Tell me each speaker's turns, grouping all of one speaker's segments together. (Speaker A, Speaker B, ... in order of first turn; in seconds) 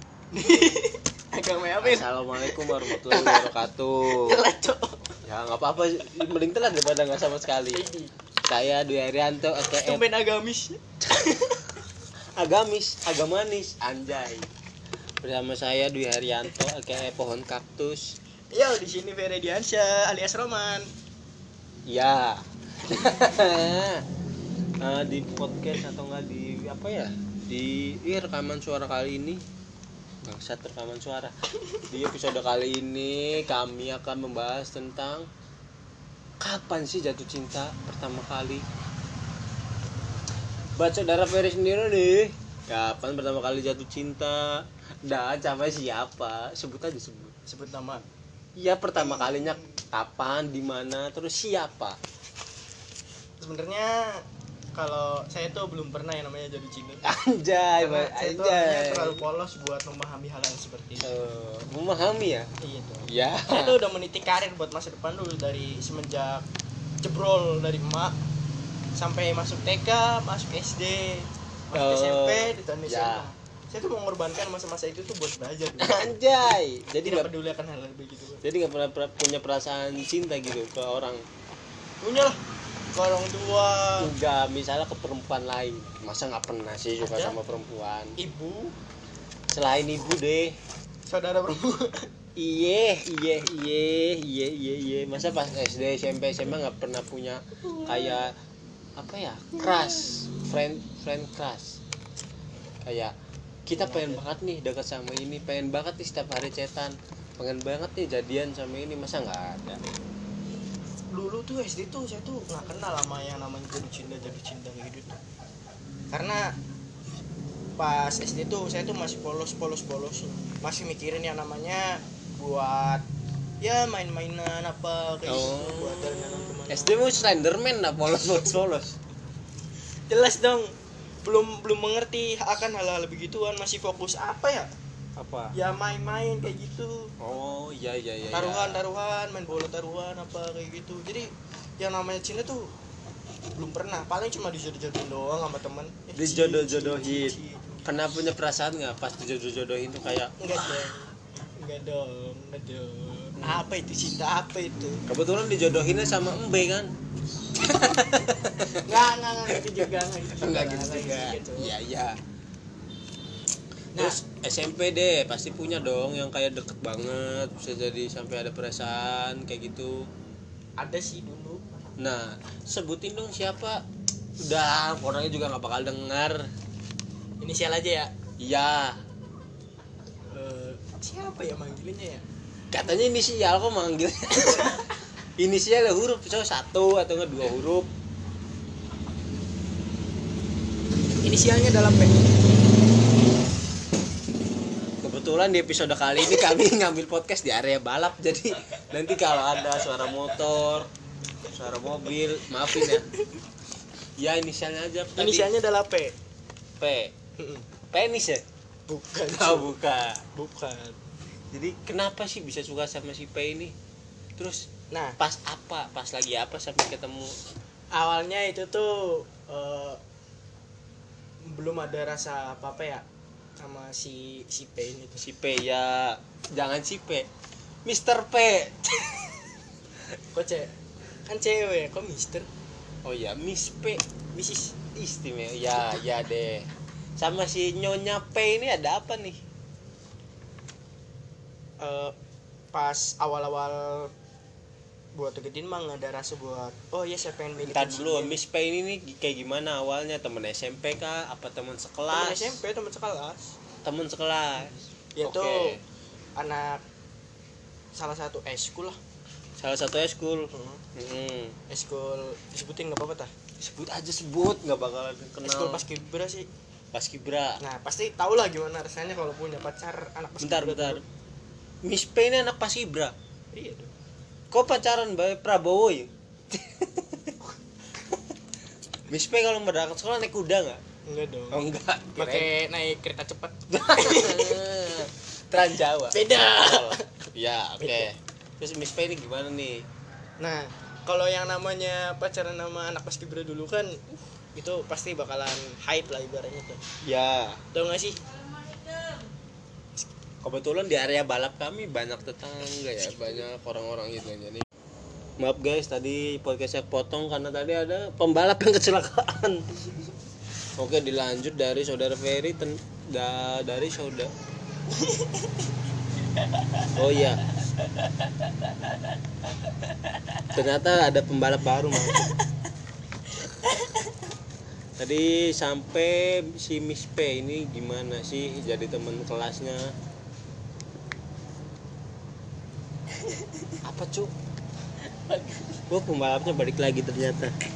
Speaker A: 0.3-3.5, 4.0-5.0, 7.7-8.1, 9.8-11.6, 18.5-20.9, 47.5-48.0, 48.9-49.8, 53.4-54.2, 54.7-57.0, 57.8-61.1, 62.6-66.4, 67.0-68.2, 68.9-76.1, 77.0-78.4, 82.0-82.4, 82.9-84.1, 87.0-87.4, 88.2-88.7, 91.1-92.1, 103.7-104.2, 111.1-115.2, 116.1-116.5, 117.8-123.0, 123.6-127.0, 130.1-134.7, 135.5-137.1, 138.3-142.7, 143.5-148.1, 150.4-155.0, 158.6-161.7, 163.9-164.2, 170.8-171.6, 177.4-178.1, 180.3-182.2, 191.2-192.2, 202.7-203.0, 205.2-206.1, 207.4-207.7, 208.9-209.7, 210.3-211.0, 214.9-215.2, 217.9-220.0, 221.4-223.0, 223.6-225.2, 230.3-230.7, 231.2-232.5, 234.3-234.8, 241.8-242.1, 242.7-244.1, 245.1-248.4, 252.1-253.6, 255.1-255.8, 256.4-256.8, 257.9-259.0, 260.5-260.8, 261.7-263.3, 265.4-266.5, 267.6-271.0, 273.5-273.9, 281.1-281.6, 282.1-284.6, 286.1-287.1, 290.4-294.0, 294.5-296.8, 297.7-298.2, 314.9-315.6, 316.4-318.7, 320.1-320.5, 323.5-324.1, 333.1-333.8, 335.1-335.8
Speaker B: 1.8-4.4, 5.2-7.8, 8.4-10.0, 12.4-14.5, 15.2-18.1, 21.9-24.0, 24.8-29.4, 30.2-31.3, 31.8-35.2, 36.4-38.6, 40.8-47.3, 48.5-52.0, 57.0-59.2, 61.0-62.5, 63.0-63.8, 71.7-73.3, 75.8-77.3, 78.4-81.2, 84.0-88.1, 89.5-90.6, 92.3-98.3, 99.0-101.8, 102.8-103.1, 103.7-109.8, 125.2-129.0, 135.2-135.5, 137.2-138.8, 146.2-150.9, 153.4-153.6, 155.1-156.9, 157.5-162.2, 163.9-170.1, 172.0-173.8, 174.4-176.4, 178.4-179.0, 182.7-187.9, 195.0-200.9, 201.5-203.1, 204.2-205.5, 206.8-207.1, 207.9-208.4, 209.3-210.2, 211.5-213.7, 214.4-217.4, 225.2-227.3, 227.8-229.4, 233.0-234.0, 234.9-239.4, 247.6-252.6, 253.8-255.8, 259.6-261.6, 263.6-265.8, 266.9-267.6, 270.4-271.0, 271.8-273.1, 274.5-277.4, 279.1-280.8, 281.5-282.5, 283.7-289.8, 297.0-297.6, 300.4-304.6, 305.4-310.1, 310.8-314.3, 316.9-317.4, 320.5-322.3, 325.0-329.9, 333.8-334.3, 335.9-337.5